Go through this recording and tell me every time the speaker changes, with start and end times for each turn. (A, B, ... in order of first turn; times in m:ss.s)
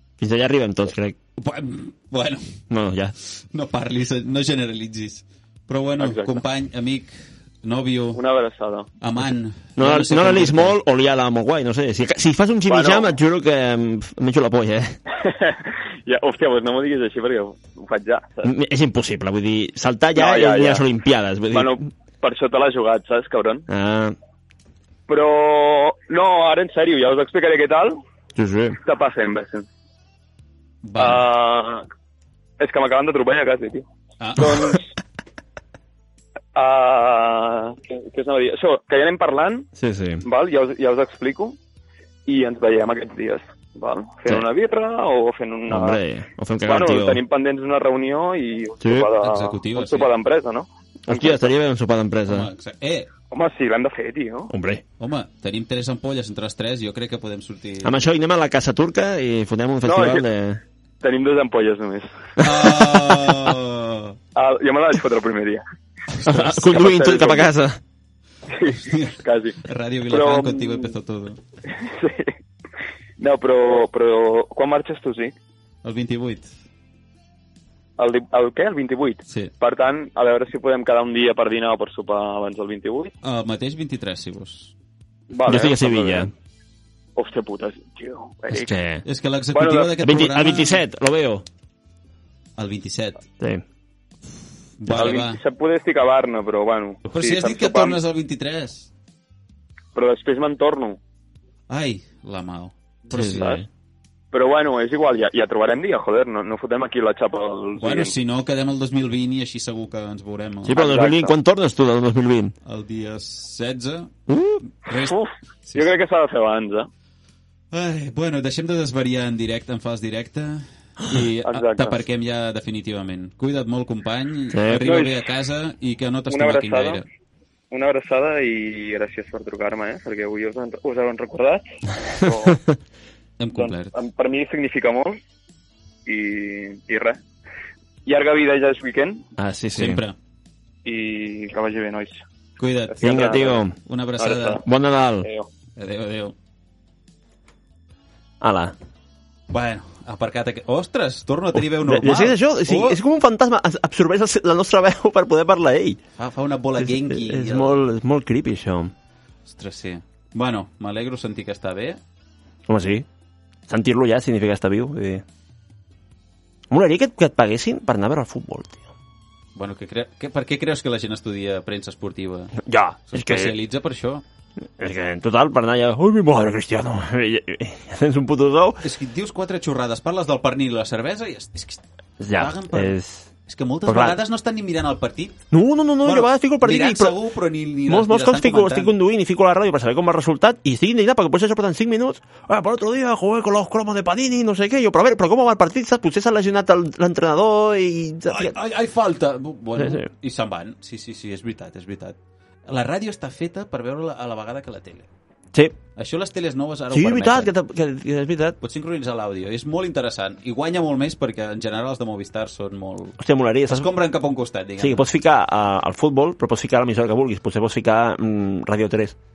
0:00.2-0:01.2 A
0:01.4-0:02.6 B
0:02.7-0:03.1 A
0:03.2-0:08.2 B
0:06.0-0:06.4 C
0:08.2-0:08.9 C
0:09.0-0:10.8 B
0:09.8-0:15.0 A
0:12.7-0:13.1 C
0:15.1-0:18.5 C
0:18.4-0:21.9 A
0:20.2-0:20.9 C
0:21.5-0:23.7 C
0:23.7-0:24.2 A
0:25.1-0:28.0 C
0:28.4-0:28.8 A
0:28.8-0:29.7 C
0:30.8-0:31.3 B
0:31.0-0:31.9 C
0:32.6-0:33.8 C
0:34.2-0:34.6 B
0:34.4-0:34.9 C
0:36.6-0:39.7 C
0:39.8-0:40.2 A
0:40.2-0:41.6 C
0:42.3-0:46.0 C
0:45.7-0:47.2 A
0:46.7-0:51.5 C
0:48.8-0:49.1 A
0:49.2-0:50.1 B
0:51.1-0:52.5 A
0:52.3-0:53.1 B
0:53.3-0:54.5 C
0:54.5-0:54.8 A
0:55.0-0:58.0 B
0:57.8-1:00.6 A
0:59.8-1:00.2 C
1:01.0-1:02.1 C
1:02.4-1:04.2 B
1:02.4-1:03.1 A
1:04.4-1:05.6 C
1:06.1-1:06.6 B
1:06.3-1:07.8 A
1:06.5-1:07.5 C
1:08.5-1:10.9 C
1:08.7-1:11.4 B
1:11.7-1:12.3 C
1:13.2-1:15.3 C
1:15.8-1:16.5 B
1:18.0-1:23.1 C
1:19.3-1:19.5 B
1:23.2-1:24.7 B
1:25.3-1:26.3 C
1:25.5-1:26.3 A
1:27.2-1:28.7 C
1:28.5-1:29.0 A
1:29.0-1:30.8 B
1:29.5-1:30.0 C
1:30.0-1:31.4 A
1:32.6-1:33.2 B
1:34.8-1:35.4 B
1:34.9-1:38.0 C
1:37.0-1:38.9 B
1:40.0-1:41.0 C
1:41.7-1:43.5 B
1:43.1-1:43.6 C
1:43.1-1:43.7 A
1:44.3-1:48.1 C
1:47.8-1:50.8 B
1:50.6-1:52.6 A
1:50.7-1:51.3 C
1:52.6-1:54.1 B
1:54.3-1:54.6 A
1:54.7-1:55.9 B
1:55.1-1:56.9 C
1:57.7-2:07.0 B
2:01.4-2:02.0 C
2:04.5-2:04.9 A
2:04.8-2:05.2 C
2:06.3-2:07.0 C
2:07.7-2:12.6 C
2:12.4-2:12.8 A
2:13.4-2:14.0 B
2:13.6-2:15.2 C
2:16.1-2:17.2 C
2:18.1-2:19.2 C
2:19.4-2:20.0 A
2:19.8-2:20.2 B
2:20.8-2:22.2 C
2:22.6-2:24.6 B
2:22.9-2:23.6 C
2:23.0-2:23.8 A
2:24.2-2:24.6 C
2:24.6-2:25.3 A
2:25.8-2:26.4 B
2:28.4-2:28.8 A
2:29.5-2:33.0 B
2:31.6-2:36.0 A
2:36.2-2:37.8 B
2:36.8-2:38.9 A
2:39.5-2:42.0 B
2:42.7-2:43.1 A
2:43.7-2:45.2 A
2:46.7-2:48.8 A
2:49.6-2:54.2 B
2:52.6-2:53.6 A
2:54.8-2:58.8 A
2:58.8-3:01.8 B
3:02.2-3:03.3 A
3:02.3-3:05.4 B
3:03.9-3:04.2 A
3:05.5-3:07.2 A
3:06.0-3:08.9 B
3:07.9-3:18.6 A
3:18.3-3:22.2 B
3:19.8-3:20.1 A
3:22.7-3:25.1 B
3:26.0-3:27.5 B
3:26.9-3:28.6 A
3:28.6-3:35.1 B
3:33.2-3:33.9 A
3:34.8-3:39.2 A